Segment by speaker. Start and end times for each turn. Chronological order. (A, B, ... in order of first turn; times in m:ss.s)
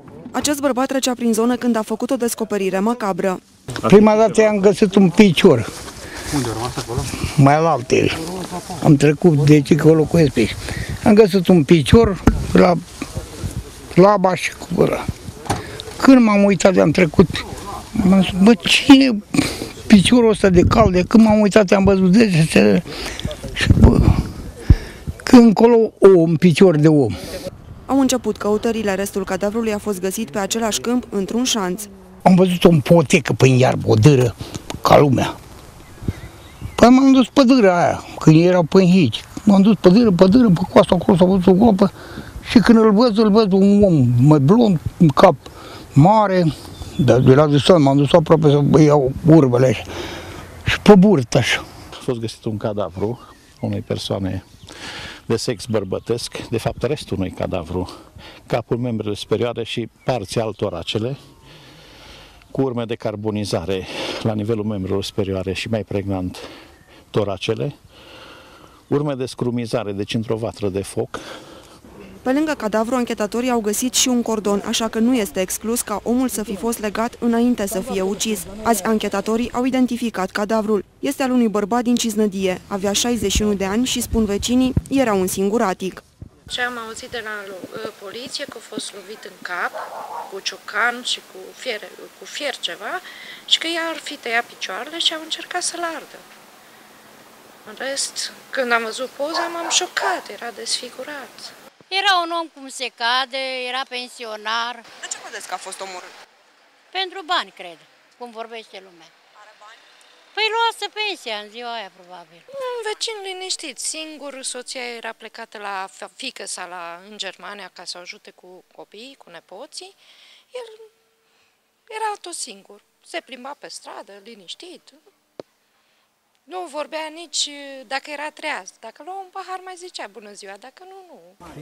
0:00.3-0:03.4 A
0:03.8-0:05.7 B
0:07.2-0:08.2 B
0:08.8-0:12.8 B
0:13.9-0:15.0 B
0:16.0-0:17.4 B
0:17.9-0:22.8 B
0:23.5-0:24.2 B
0:25.2-0:27.2 B
0:27.9-0:31.9 A
0:32.2-0:35.3 B
0:36.8-0:41.9 B
0:42.4-0:45.4 B
0:45.9-0:49.9 B
0:50.6-0:51.6 B
0:52.0-0:54.4 C
0:55.3-0:57.9 C
0:58.5-1:01.2 C
1:02.5-1:06.4 C
1:07.1-1:07.7 C
1:08.9-1:11.2 C
1:12.2-1:26.0 A
1:26.5-1:36.2 D
1:37.6-1:41.5 D
1:41.9-1:44.8 E
1:45.0-1:46.1 A
1:46.9-1:49.1 E
1:50.3-1:52.4 E
1:52.5-2:00.0 D
2:00.5-2:00.9 D
2:01.9-2:05.0 D
2:06.5-2:11.4 D